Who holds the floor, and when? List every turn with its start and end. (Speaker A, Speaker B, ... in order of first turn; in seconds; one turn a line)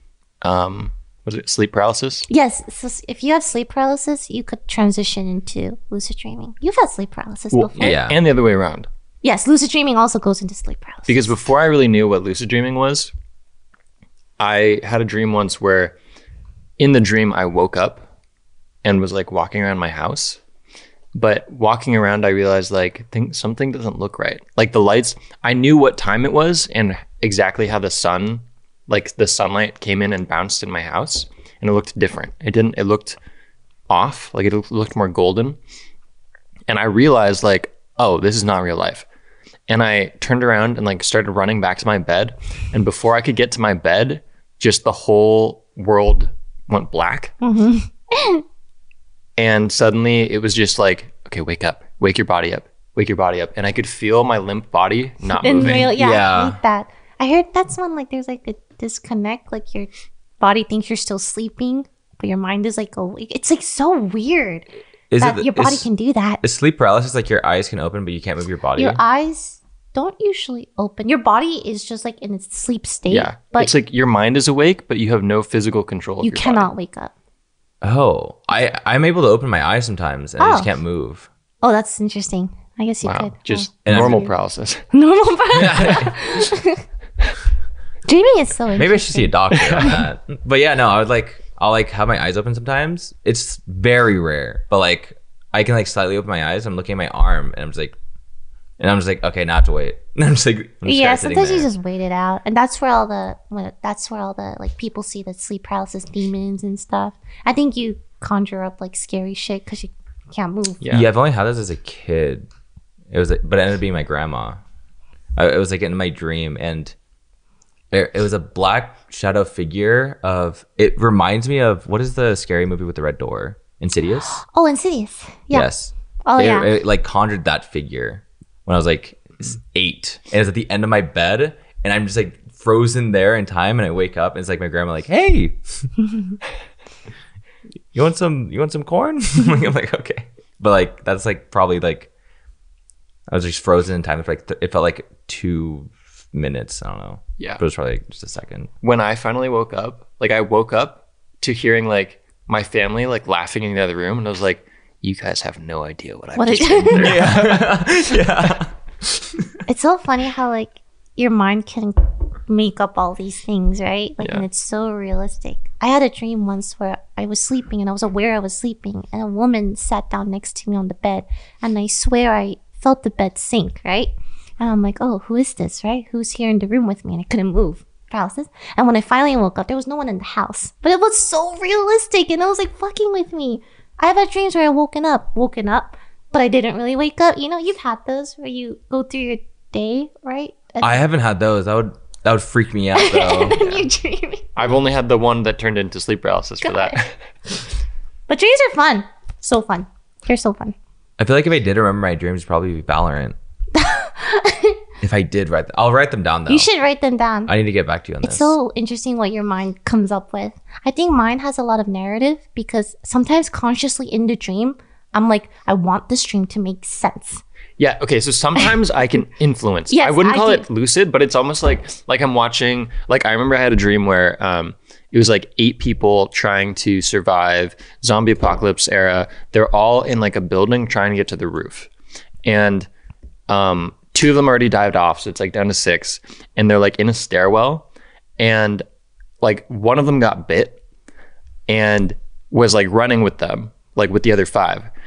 Speaker A: 0.4-2.2
Speaker B: 2.3-8.0
Speaker A: 7.5-8.9
Speaker C: 7.8-8.2
Speaker B: 9.2-11.3
Speaker A: 11.1-13.1
Speaker A: 14.4-15.9
Speaker A: 16.8-18.0
Speaker A: 18.8-20.4
Speaker A: 21.1-33.2
Speaker A: 33.9-35.6
Speaker A: 36.7-39.0
Speaker A: 39.7-47.3
Speaker B: 47.4-48.4
Speaker A: 49.4-56.0
Speaker B: 55.3-64.7
Speaker C: 55.6-56.6
Speaker C: 65.1-65.9
Speaker B: 65.2-66.4
Speaker C: 66.4-69.0
Speaker B: 68.8-73.7
Speaker A: 73.1-76.7
Speaker B: 76.2-77.1
Speaker C: 77.8-81.3
Speaker B: 80.4-80.7
Speaker B: 81.6-84.3
Speaker A: 83.0-84.8
Speaker C: 83.8-84.2
Speaker B: 84.9-86.8
Speaker C: 85.6-86.1
Speaker B: 88.0-90.0
Speaker C: 88.7-97.9
Speaker A: 89.6-89.9
Speaker C: 98.8-101.7
Speaker B: 100.8-110.8
Speaker A: 110.8-111.1
Speaker C: 110.9-112.5
Speaker C: 113.1-114.6
Speaker C: 115.3-116.9
Speaker C: 117.9-124.4
Speaker B: 124.5-125.7
Speaker C: 125.5-135.6
Speaker B: 126.2-126.7
Speaker C: 137.9-142.1
Speaker C: 143.3-148.7
Speaker A: 148.8-158.5
Speaker B: 156.4-157.3
Speaker C: 156.9-158.7
Speaker B: 159.7-191.0
Speaker C: 190.8-193.8
Speaker B: 192.9-194.7
Speaker A: 194.6-197.2
Speaker B: 196.6-197.0
Speaker B: 198.3-200.7
Speaker C: 201.2-203.3
Speaker B: 203.7-204.8
Speaker C: 205.0-206.7
Speaker B: 206.5-207.5
Speaker C: 207.5-208.5
Speaker B: 208.2-217.4
Speaker A: 217.8-231.9
Speaker B: 219.9-220.6
Speaker A: 232.4-232.9
Speaker A: 233.5-237.9
Speaker A: 238.4-238.8
Speaker A: 239.4-240.8
Speaker A: 241.7-244.9